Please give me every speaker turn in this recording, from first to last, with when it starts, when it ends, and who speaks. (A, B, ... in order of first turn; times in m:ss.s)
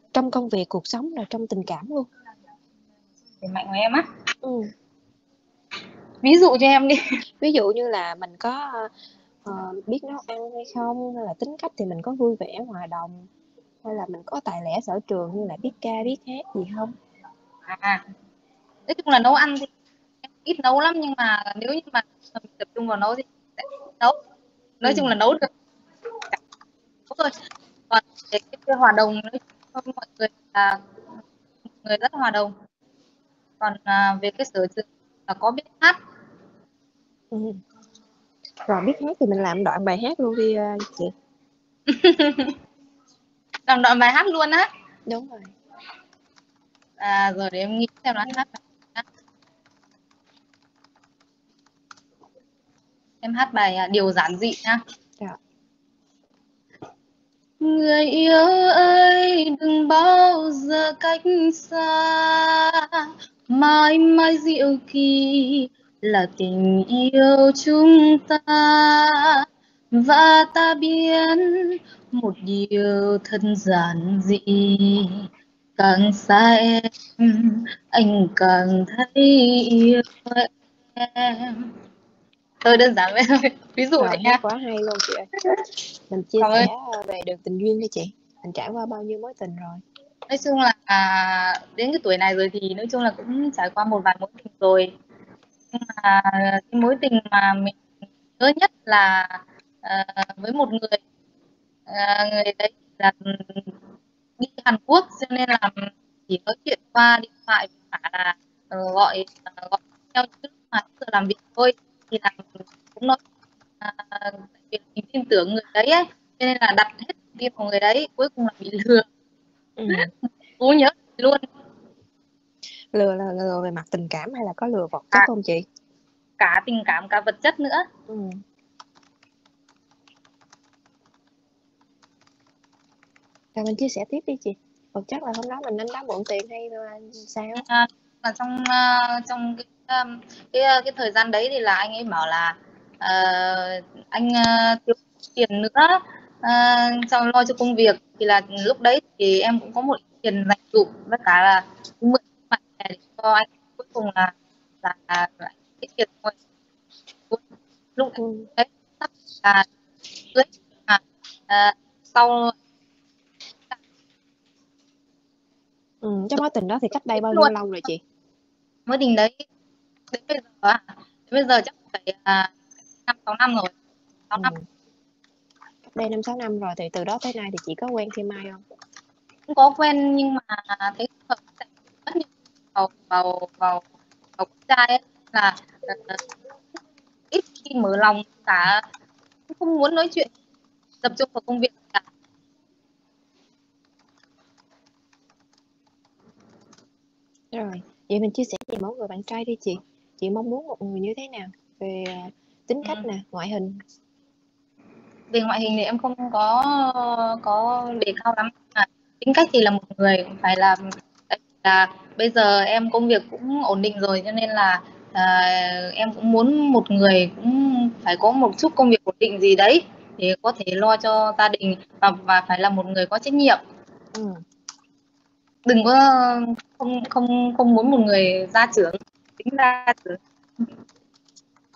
0:00.1-0:02.1 A
0:03.4-0:04.1 B
0:04.4-0:04.7 A
0:06.2-0:07.0 B
0:07.4-0:08.9 A
0:09.4-0:13.3 A
0:13.8-0:16.9 A
0:17.7-0:18.0 B
0:18.9-0:19.7 B
0:20.4-0:24.2 B
0:24.8-0:25.5 B
0:24.8-0:25.1 A
0:27.1-0:27.4 B
0:27.9-0:30.8 B
0:31.8-0:32.6 B
0:33.6-0:36.0 B
0:37.3-0:37.6 A
0:38.7-0:41.1 A
0:41.9-0:42.6 B
0:43.7-0:44.7 B
0:45.1-0:45.5 A
0:47.0-0:49.0 B
0:53.2-0:54.8 B
0:57.6-1:15.3 B
1:15.8-1:21.7 B
1:22.6-1:24.4 B
1:24.0-1:25.3 A
1:26.1-1:29.8 A
1:26.4-1:26.7 B
1:30.3-1:34.9 B
1:35.7-1:37.8 B
1:38.4-1:41.0 B
1:41.9-1:43.7 B
1:44.4-1:53.2 B
1:53.8-1:59.1 B
1:59.8-2:00.1 A
1:59.9-2:01.5 B
2:02.9-2:05.6 A
2:06.4-2:07.9 B
2:08.1-2:08.4 A
2:13.6-2:17.6 A
2:17.7-2:36.4 B
2:38.0-2:39.7 B
2:38.2-2:38.5 A
2:40.3-2:42.5 B
2:46.0-2:48.0 A
2:47.2-2:47.5 B
2:48.9-2:49.4 B
2:50.1-2:52.5 B
2:53.1-2:53.7 B
2:54.3-2:54.6 B
2:54.4-2:54.6 A
2:55.9-2:58.6 A
2:59.5-3:03.8 B
3:04.4-3:06.2 B
3:07.3-3:08.8 B
3:09.5-3:10.3 B
3:11.0-3:12.0 B
3:17.5-3:23.7 A
3:25.3-3:43.6 B
3:44.1-3:44.4 A
3:45.7-3:50.2 B